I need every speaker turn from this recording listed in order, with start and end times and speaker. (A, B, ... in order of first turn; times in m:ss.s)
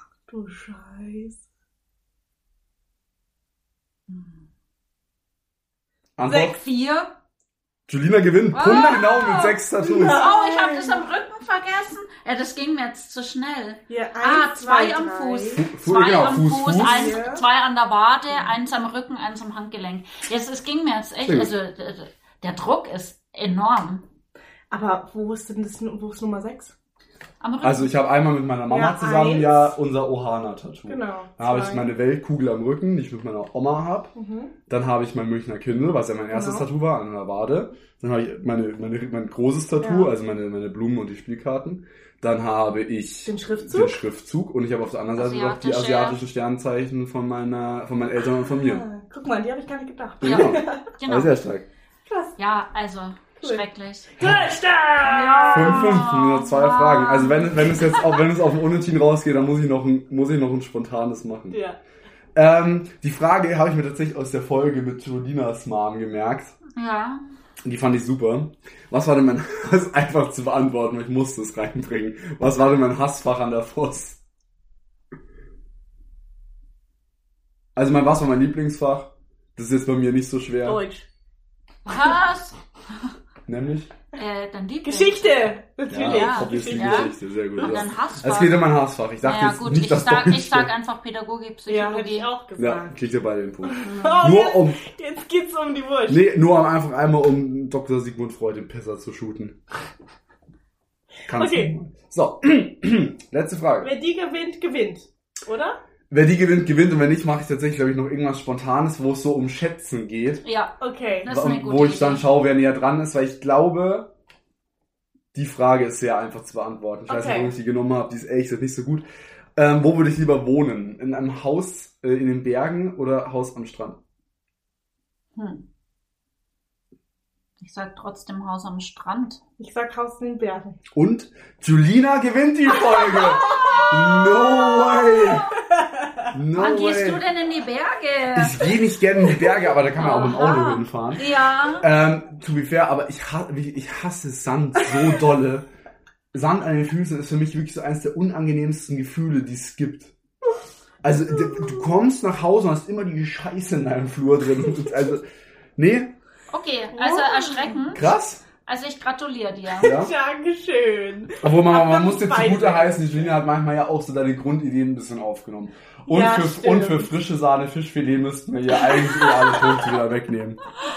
0:00.3-0:01.4 A
0:06.2-0:06.6 B
0:06.3-0:07.1 C
0:07.9-0:10.3 B
0:08.5-0:24.0 C
0:09.8-0:11.1 A
0:13.9-0:15.7 A
0:15.6-0:17.2 B
0:16.7-0:17.4 A
0:21.2-0:21.5 B
0:24.7-0:26.8 A
0:27.4-0:27.9 C
0:27.6-0:34.1 B
0:28.7-0:29.7 A
0:30.9-0:31.9 A
0:34.2-0:34.5 A
0:34.7-0:48.9 B
0:36.3-0:36.7 A
0:39.8-0:40.1 A
0:43.3-0:44.0 A
0:45.2-0:46.2 C
0:48.6-0:50.9 A
0:50.2-0:51.7 B
0:50.2-0:51.3 C
0:52.1-0:52.4 A
0:52.4-0:54.3 C
0:53.4-0:55.9 A
0:54.2-0:54.6 B
0:55.0-0:58.2 C
0:55.5-1:01.6 B
1:01.5-1:01.8 A
1:02.4-1:06.6 B
1:06.8-1:07.2 C
1:07.6-1:14.2 B
1:17.8-1:20.8 B
1:20.6-1:21.1 A
1:21.9-1:23.1 C
1:23.5-1:23.9 B
1:24.1-1:25.4 C
1:24.8-1:27.8 A
1:25.9-1:30.7 B
1:26.0-1:28.7 C
1:29.2-1:32.3 C
1:31.7-1:33.0 A
1:32.6-1:34.8 B
1:33.6-1:36.2 A
1:33.9-1:34.2 C
1:36.1-1:39.6 B
1:41.3-1:43.9 B
1:41.3-1:41.7 A
1:43.8-1:45.8 A
1:46.1-1:50.4 B
1:50.4-1:52.3 C
1:50.8-1:51.3 A
1:51.3-1:54.1 B
1:55.3-1:59.0 B
1:57.1-1:57.5 A
1:59.6-2:04.0 B
2:05.4-2:05.6 C
2:07.6-2:09.4 C
2:09.6-2:10.8 A
2:10.9-2:15.5 B
2:13.1-2:13.9 A
2:13.1-2:15.4 C
2:14.8-2:16.3 A
2:16.3-2:17.2 B
2:16.5-2:18.8 C
2:18.3-2:25.7 B
2:20.0-2:21.9 C
2:26.3-2:30.1 B
2:31.0-2:35.3 B
2:31.4-2:31.8 A
2:35.8-2:36.1 B
2:36.5-2:38.1 C
2:36.9-2:37.8 A
2:37.9-2:38.4 B
2:38.6-2:39.9 C
2:39.8-2:43.3 A
2:39.8-2:40.1 B
2:41.4-2:50.6 B
2:46.1-2:47.1 A
2:48.8-2:49.8 A